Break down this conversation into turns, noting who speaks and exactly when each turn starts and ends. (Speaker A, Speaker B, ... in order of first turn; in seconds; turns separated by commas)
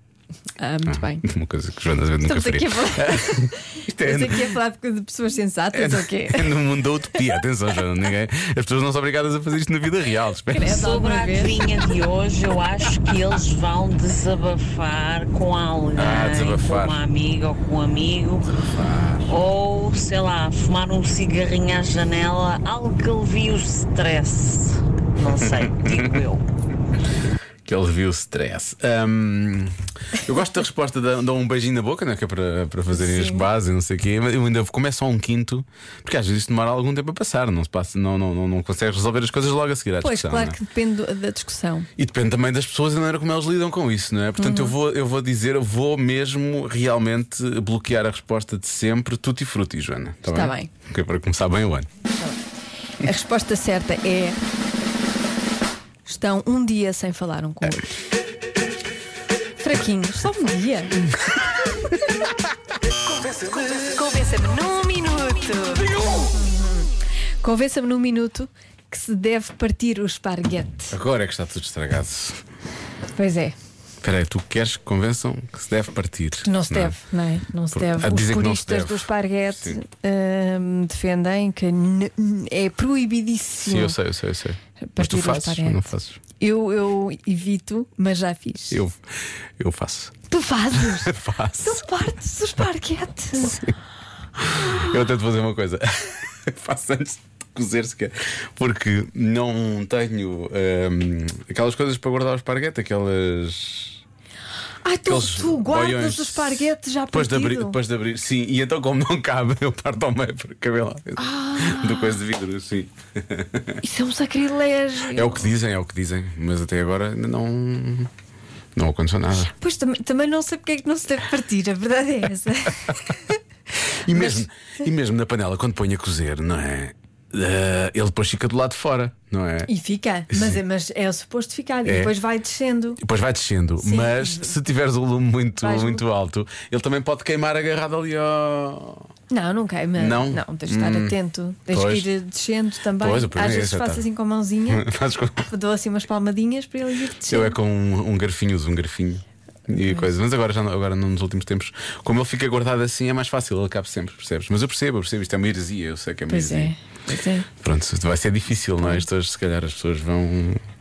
Speaker A: 0.6-1.2, Speaker B: 0.8-4.6, Speaker A: 2.2-6.6, Speaker B: 5.7-10.8, Speaker A: 10.5-11.8, Speaker C: 10.7-18.6, Speaker B: 15.9-17.0, Speaker B: 18.6-19.3, Speaker C: 19.3-26.4, Speaker B: 25.3-26.1, Speaker B: 27.6-40.5, Speaker A: 32.9-33.5, Speaker A: 40.0-41.9, Speaker B: 42.0-51.9, Speaker A: 44.4-44.8, Speaker A: 50.3-50.7, Speaker A: 52.1-52.4, Speaker A: 53.0-54.4, Speaker A: 56.0-58.0, Speaker A: 59.6-61.1, Speaker A: 63.7-70.9, Speaker B: 70.9-72.4, Speaker A: 73.2-73.5, Speaker B: 74.0-77.0, Speaker A: 76.4-84.0, Speaker B: 77.7-79.8, Speaker B: 83.6-86.2, Speaker A: 84.8-88.8, Speaker B: 88.7-90.2, Speaker A: 90.3-93.7, Speaker B: 90.7-91.8, Speaker B: 93.4-93.7, Speaker B: 94.4-104.0, Speaker A: 104.8-107.8, Speaker B: 105.0-113.8, Speaker A: 111.2-112.2, Speaker A: 113.8-115.5, Speaker B: 115.1-118.1, Speaker B: 118.7-119.5, Speaker A: 119.3-123.4, Speaker B: 124.0-129.7, Speaker A: 124.1-124.4, Speaker A: 129.7-133.0, Speaker B: 130.3-130.6, Speaker B: 131.8-132.1, Speaker B: 133.0-139.1, Speaker A: 133.8-134.5, Speaker A: 135.6-136.0, Speaker A: 139.3-144.9, Speaker B: 140.0-141.2, Speaker B: 141.7-142.1, Speaker B: 143.0-144.1, Speaker B: 144.7-145.5, Speaker A: 145.4-147.6, Speaker B: 147.3-156.7, Speaker A: 156.3-157.5, Speaker B: 157.6-160.6